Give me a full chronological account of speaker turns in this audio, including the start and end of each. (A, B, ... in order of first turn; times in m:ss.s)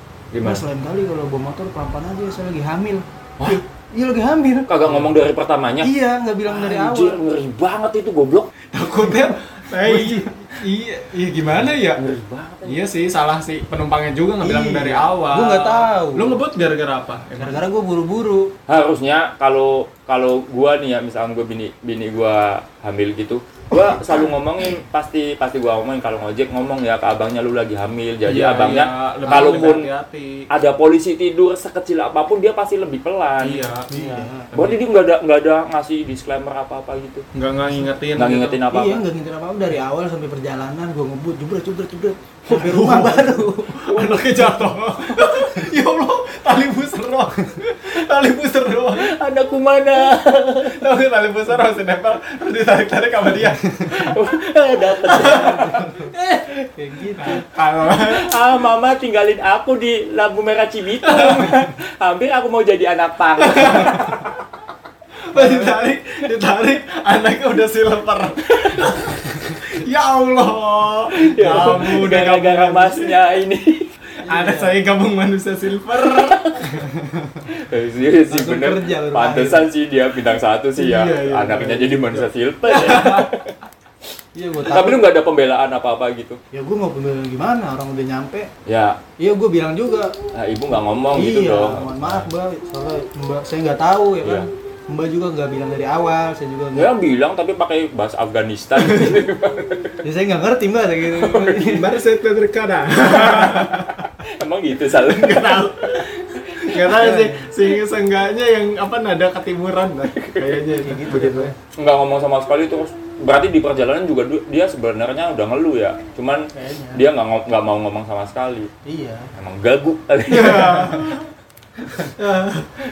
0:00.3-0:00.6 A
0:00.4-0:05.1 B
0:04.7-0:05.9 A
0:05.8-0:07.2 B
0:06.5-0:08.5 A
0:08.7-0:12.0 C
0:09.0-0:10.3 B
0:11.8-0:12.8 A
0:12.6-0:17.6 C
0:14.4-0:16.4 B
0:17.4-0:18.5 B
0:18.7-0:29.9 A
0:28.2-0:30.5 C
0:30.5-0:33.7 A
0:33.4-0:34.8 C
0:33.9-0:34.5 B
0:34.5-0:37.2 A
0:37.4-0:38.6 C
0:38.2-0:39.0 A
0:38.7-0:43.9 B
0:42.5-0:49.1 C
0:43.9-0:44.3 A
0:48.9-0:50.8 A
0:50.6-0:54.1 C
0:53.9-0:56.6 A
0:55.1-0:55.8 C
0:55.2-0:56.1 B
0:56.8-0:57.5 B
0:57.2-0:58.3 C
0:58.0-1:04.2 A
1:01.2-1:01.5 C
1:03.4-1:04.2 C
1:05.3-1:13.2 C
1:05.3-1:05.7 B
1:11.2-1:13.9 A
1:14.2-1:14.8 B
1:14.2-1:16.8 C
1:16.0-1:16.8 A
1:16.9-1:17.4 B
1:17.5-1:23.6 A
1:18.3-1:19.7 B
1:20.8-1:22.0 C
1:21.3-1:21.8 B
1:22.7-1:23.3 C
1:24.4-1:25.1 B
1:24.6-1:26.4 A
1:26.5-1:28.5 B
1:28.7-1:29.0 A
1:29.2-1:30.1 B
1:30.3-1:32.3 A
1:31.1-1:36.9 B
1:34.2-1:34.5 A
1:36.7-1:40.0 A
1:40.0-1:42.0 B
1:41.2-1:41.7 A
1:41.6-1:44.0 C
1:44.2-1:46.8 A
1:44.9-1:51.5 C
1:46.8-1:47.5 B
1:50.1-1:50.6 A
1:50.8-1:51.5 B
1:51.8-1:58.7 A
1:56.5-1:57.0 B
1:58.8-1:59.3 B
1:59.4-2:01.2 A
2:00.3-2:01.3 C
2:02.0-2:02.7 C